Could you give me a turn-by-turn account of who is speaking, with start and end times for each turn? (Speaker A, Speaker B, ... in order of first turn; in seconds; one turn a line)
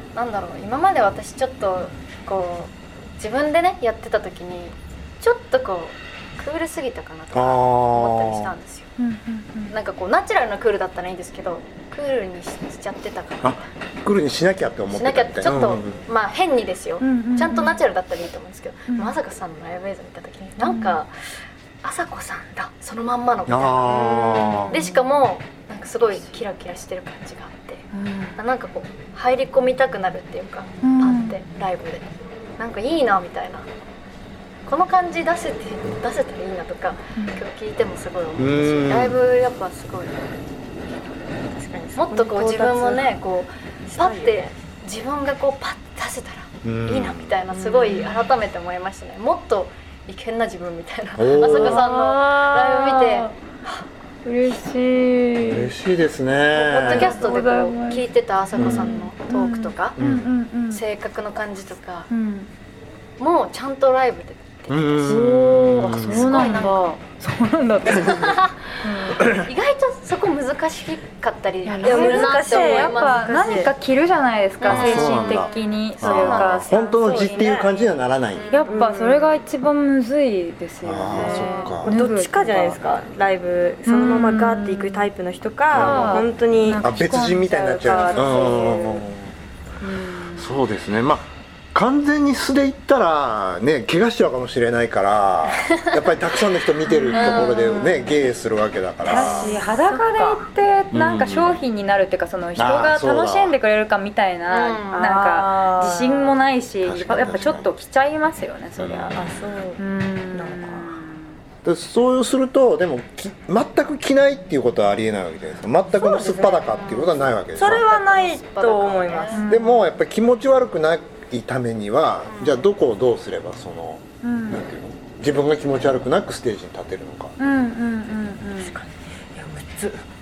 Speaker A: 0.1-8.9
Speaker B: 7.3-8.5
Speaker C: 9.0-9.7
Speaker A: 9.7-13.6
Speaker B: 13.4-16.0
Speaker A: 14.9-21.1
Speaker C: 17.0-17.8
Speaker C: 18.9-19.1
Speaker C: 20.6-21.0
Speaker A: 21.8-32.0
Speaker B: 23.5-24.8
Speaker C: 24.7-25.0
Speaker C: 27.9-28.4
Speaker C: 30.8-31.4
Speaker A: 32.6-33.7
Speaker A: 34.7-40.2
Speaker C: 37.2-37.4
Speaker B: 38.4-39.2
Speaker D: 41.6-43.1
Speaker A: 42.0-53.8
Speaker D: 43.9-44.5
Speaker B: 46.6-47.4
Speaker D: 47.5-48.1
Speaker C: 47.9-48.3
Speaker B: 51.2-51.8
Speaker C: 51.4-53.4
Speaker C: 54.2-55.7
Speaker B: 55.5-57.1
Speaker A: 56.5-60.0
Speaker C: 56.8-60.8
Speaker B: 58.6-58.9
Speaker B: 60.0-60.3
Speaker A: 60.7-62.1
Speaker C: 62.1-62.5
Speaker A: 63.2-66.8
Speaker B: 64.7-66.5
Speaker C: 65.0-69.3
Speaker A: 68.0-73.7
Speaker C: 71.6-77.7
Speaker D: 71.8-73.7
Speaker A: 74.6-75.5
Speaker B: 74.7-78.6
Speaker A: 76.0-76.6
Speaker D: 76.9-77.7
Speaker C: 78.5-82.9
Speaker D: 78.7-79.4
Speaker B: 80.8-82.0
Speaker A: 81.1-81.7
Speaker D: 81.8-86.8
Speaker C: 83.9-85.1
Speaker B: 85.7-89.3
Speaker C: 85.8-89.1
Speaker D: 87.7-88.7
Speaker C: 89.8-90.6
Speaker B: 90.4-99.5
Speaker C: 96.9-98.2
Speaker A: 97.1-97.6
Speaker D: 99.0-100.5
Speaker C: 99.1-109.2
Speaker B: 100.9-101.6
Speaker B: 102.6-103.6
Speaker A: 104.5-105.1
Speaker D: 104.9-106.4
Speaker B: 106.8-107.7
Speaker D: 107.1-107.4
Speaker B: 108.8-109.3
Speaker D: 109.1-109.8
Speaker C: 109.8-111.4
Speaker D: 110.3-111.0
Speaker B: 111.6-117.9
Speaker C: 115.9-116.7
Speaker A: 116.5-119.5
Speaker D: 117.6-119.4
Speaker C: 119.3-119.9
Speaker B: 119.5-127.3
Speaker A: 122.3-122.7
Speaker C: 124.2-124.7
Speaker C: 127.4-128.8
Speaker D: 128.6-130.0